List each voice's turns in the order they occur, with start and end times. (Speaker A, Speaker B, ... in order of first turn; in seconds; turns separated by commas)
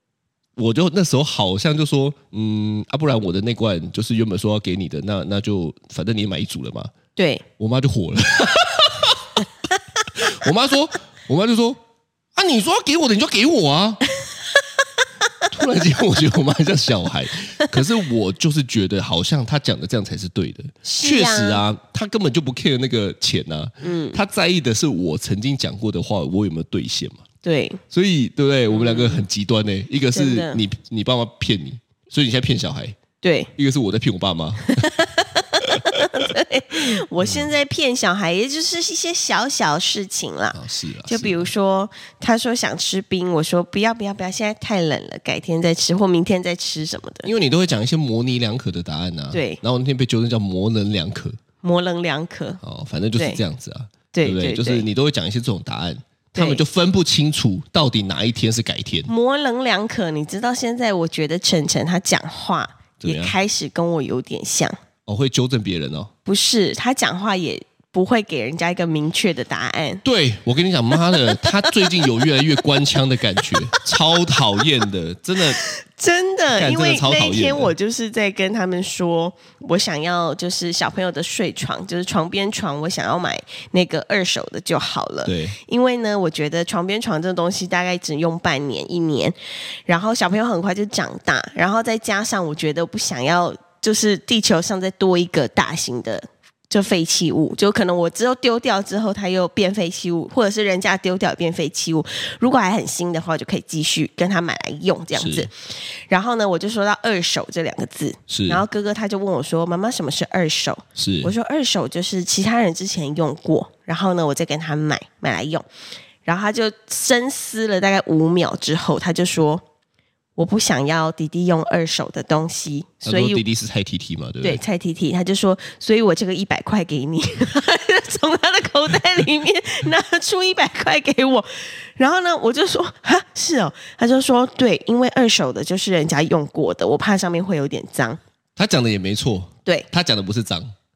Speaker A: 0.6-6.9, Speaker B: 7.2-7.4, Speaker A: 7.6-9.4, Speaker A: 10.1-11.8, Speaker A: 12.3-14.0, Speaker A: 15.5-27.2, Speaker B: 20.8-21.6, Speaker B: 23.8-24.2, Speaker B: 27.4-27.8, Speaker A: 27.9-33.0, Speaker B: 28.7-29.2, Speaker B: 30.1-30.6, Speaker B: 33.2-33.5, Speaker A: 33.5-35.0, Speaker B: 34.7-47.3, Speaker A: 35.6-36.3, Speaker A: 37.2-37.5, Speaker A: 40.5-41.5, Speaker A: 47.2-51.4, Speaker B: 49.3-49.6, Speaker B: 51.6-52.6, Speaker A: 52.6-59.1, Speaker B: 54.1-54.9, Speaker B: 56.3-56.6, Speaker B: 59.1-64.8, Speaker A: 63.0-63.3, Speaker A: 65.0-66.1, Speaker B: 66.2-70.0, Speaker A: 70.0-75.6, Speaker B: 71.1-72.1, Speaker B: 73.4-73.8, Speaker B: 75.6-115.7, Speaker A: 76.5-77.7, Speaker A: 85.2-85.6, Speaker A: 105.2-105.5, Speaker A: 108.3-108.6, Speaker A: 111.0-111.3, Speaker B: 116.2-119.6, Speaker B: 120.3-123.4, Speaker A: 123.0-124.6, Speaker B: 124.4-138.2, Speaker A: 138.6-140.7